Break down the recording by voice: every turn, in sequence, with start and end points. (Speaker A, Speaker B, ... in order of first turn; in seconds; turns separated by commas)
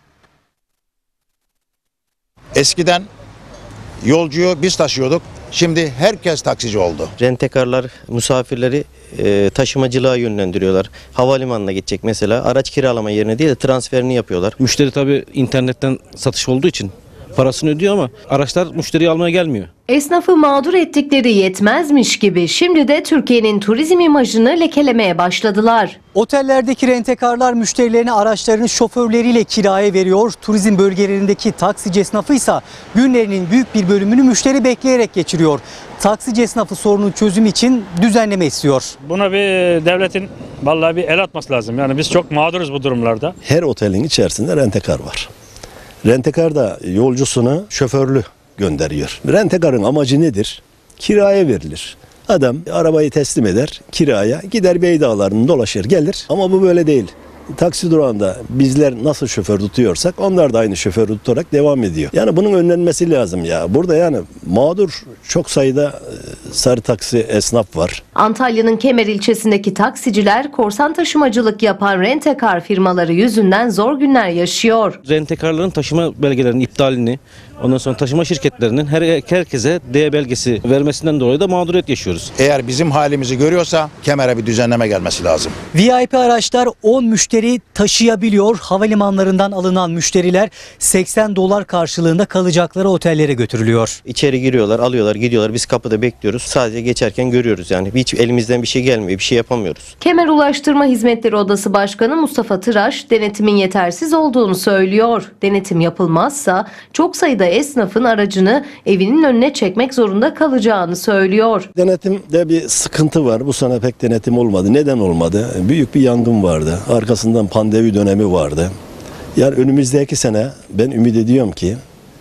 Speaker A: 2.5-3.1, Speaker A: 4.0-7.1, Speaker B: 7.2-14.6, Speaker C: 14.6-19.7, Speaker D: 19.9-26.0, Speaker E: 26.1-38.9, Speaker F: 39.0-43.3, Speaker G: 43.4-45.3, Speaker G: 46.0-68.0, Speaker D: 68.2-75.0, Speaker C: 75.0-82.3, Speaker A: 82.3-85.5, Speaker E: 85.7-94.0, Speaker B: 94.0-99.9, Speaker D: 100.0-111.7, Speaker G: 111.8-118.7, Speaker G: 119.3-121.8